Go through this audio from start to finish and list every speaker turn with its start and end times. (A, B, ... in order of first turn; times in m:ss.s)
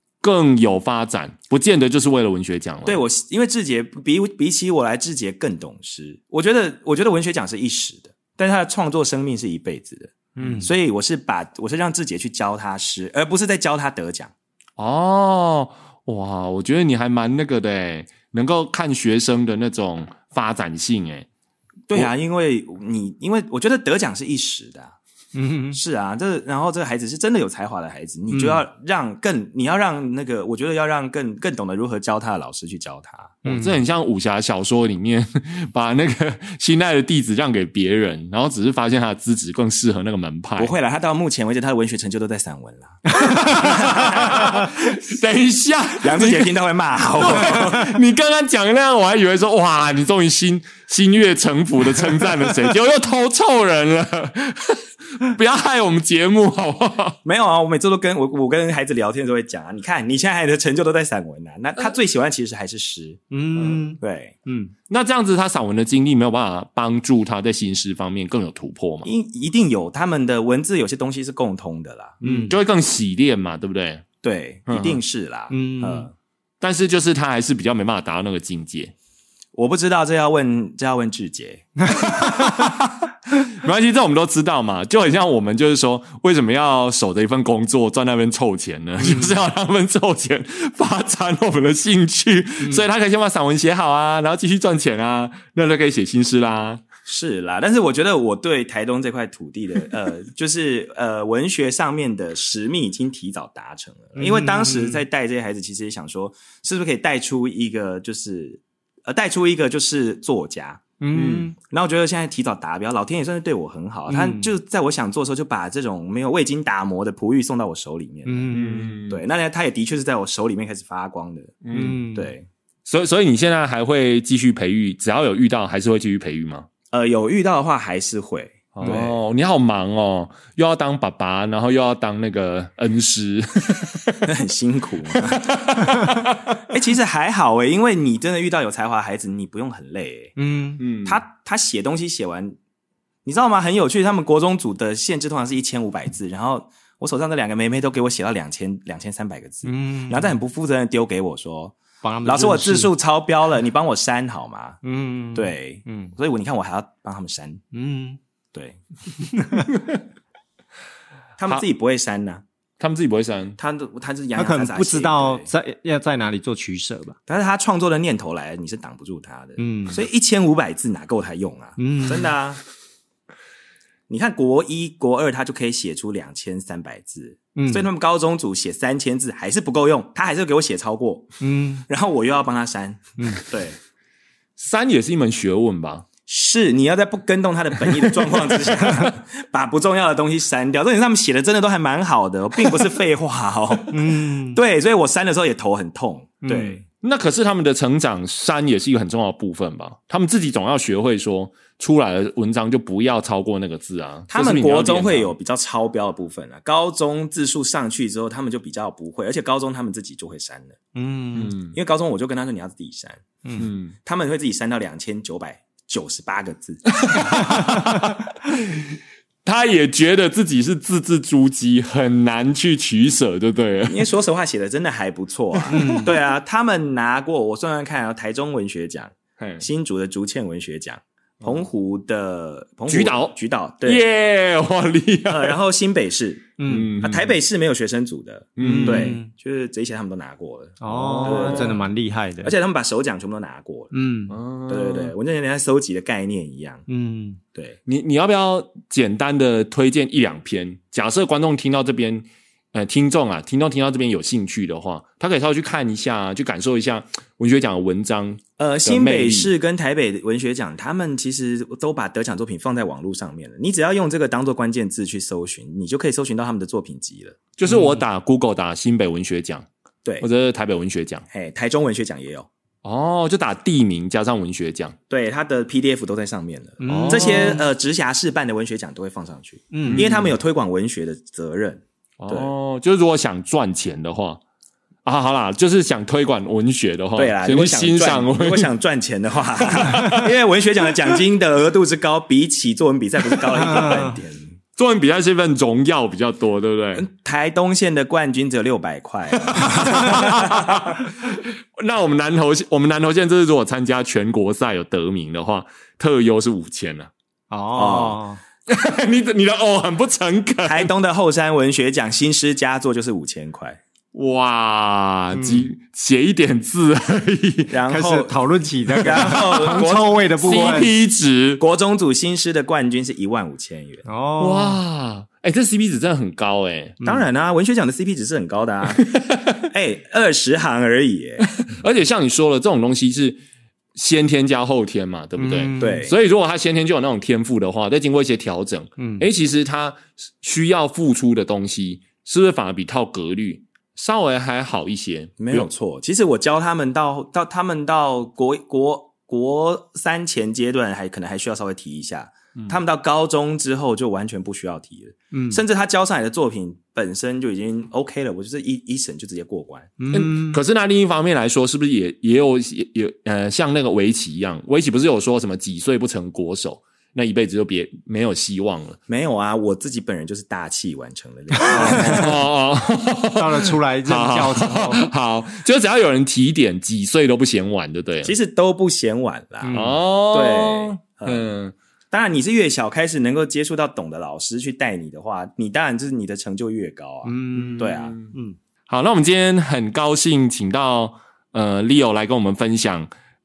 0:00.2-0:03.0 A
0:02.8-0:14.3 B
0:10.4-0:10.7 C
0:14.8-0:21.3 A
0:21.9-0:25.0 B
0:25.4-0:25.8 C
0:25.7-0:33.4 B
0:28.3-0:28.6 C
0:33.4-0:33.8 C
0:33.4-0:40.7 A
0:40.6-0:44.6 B
0:43.1-0:43.9 C
0:43.2-0:46.5 A
0:46.0-0:47.9 B
0:47.2-0:57.2 A
0:57.2-1:03.2 B
1:03.3-1:04.7 C
1:04.0-1:04.4 B
1:04.9-1:09.1 A
1:09.0-1:12.4 B
1:12.2-1:12.6 C
1:12.2-1:14.0 A
1:14.2-1:16.1 B
1:14.7-1:15.0 A
1:15.5-1:16.1 C
1:16.6-1:18.9 A
1:19.5-1:21.8 B
1:21.8-1:22.7 C
1:22.0-1:36.8 A
1:29.0-1:29.3 C
1:37.1-1:50.8 B
1:44.2-1:45.0 C
1:51.0-1:51.6 C
1:51.1-1:51.5 A
1:51.6-2:02.5 B
1:54.1-1:54.5 C
1:58.3-1:59.0 C
1:58.5-1:59.2 A
2:01.6-2:02.0 A
2:01.7-2:02.3 C
2:02.9-2:06.7 A
2:06.9-2:09.2 B
2:08.8-2:14.3 A
2:14.3-2:20.4 B
2:15.1-2:16.7 A
2:20.4-2:20.8 C
2:20.8-2:21.2 A
2:21.0-2:22.6 B
2:23.3-2:34.8 B
2:29.6-2:30.3 C
2:32.0-2:32.9 C
2:34.8-2:36.1 C
2:35.3-2:37.6 B
2:37.7-2:38.2 C
2:39.3-2:39.7 C
2:41.4-2:42.4 B
2:42.8-2:43.6 A
2:43.6-2:45.5 B
2:44.4-2:47.2 C
2:47.3-2:52.6 B
2:49.6-2:50.0 C
2:51.8-2:52.3 C
2:54.1-3:01.4 B
2:57.6-2:57.9 C
3:01.4-3:01.8 C
3:01.9-3:03.8 B
3:04.6-3:06.1 A
3:06.3-3:16.8 B
3:13.9-3:14.6 C
3:16.4-3:16.8 C
3:17.0-3:25.3 A
3:24.3-3:30.8 B
3:31.0-3:31.6 C
3:31.4-3:31.8 A
3:31.7-3:33.2 B
3:33.4-3:33.7 C
3:33.6-3:34.0 A
3:34.0-3:37.5 B
3:37.0-3:38.8 A
3:37.1-3:38.2 C
3:39.4-3:44.1 A
3:43.9-3:54.1 B
3:45.7-3:46.1 C
3:49.4-3:49.7 A
3:52.9-3:55.6 A
3:55.3-4:01.8 B
3:56.6-3:56.9 C
3:56.7-3:57.4 A
3:58.6-3:59.2 A
3:58.6-3:59.3 C
4:00.8-4:02.5 C
4:00.9-4:01.7 A
4:02.4-4:03.9 B
4:03.9-4:04.4 C
4:04.3-4:05.1 A
4:04.7-4:06.8 B
4:06.9-4:07.4 C
4:07.9-4:19.5 A
4:18.6-4:27.4 B
4:27.6-4:29.7 A
4:27.7-4:28.0 C
4:30.2-4:31.2 A
4:31.3-4:32.5 B
4:32.8-4:35.0 A
4:35.1-4:42.5 B
4:36.8-4:37.7 C
4:36.9-4:37.6 A
4:39.7-4:40.0 C
4:39.9-4:40.2 A
4:42.2-4:44.4 A
4:45.0-4:48.7 A
4:47.2-4:54.5 B
4:49.6-4:50.3 A
4:53.8-4:54.1 C
4:54.8-4:57.1 A
4:57.0-5:00.9 B
4:59.4-5:07.1 A
5:07.5-5:08.4 C
5:07.8-5:08.2 B
5:08.7-5:10.9 A
5:10.6-5:13.8 B
5:14.1-5:17.7 A
5:15.3-5:15.7 C
5:17.7-5:18.3 B
5:17.9-5:20.9 C
5:19.0-5:20.9 B
5:19.1-5:21.6 A
5:21.6-5:24.1 B
5:24.1-5:24.8 C
5:24.4-5:27.0 A
5:27.0-5:27.3 C
5:27.0-5:31.5 B
5:28.9-5:29.6 A
5:31.4-5:33.4 A
5:34.0-5:45.7 A
5:35.4-5:36.1 C
5:35.8-5:36.1 B
5:39.0-5:39.2 C
5:45.4-5:59.9 B
5:55.3-5:55.6 C
6:00.0-6:00.6 C
6:00.1-6:09.0 A
6:09.1-6:12.4 B
6:11.6-6:18.4 A
6:11.6-6:12.3 C
6:13.4-6:15.1 C
6:18.2-6:21.5 B
6:19.6-6:20.0 C
6:19.7-6:21.8 A
6:22.1-6:28.2 B
6:27.2-6:28.6 C
6:27.6-6:28.3 A
6:28.9-6:33.1 A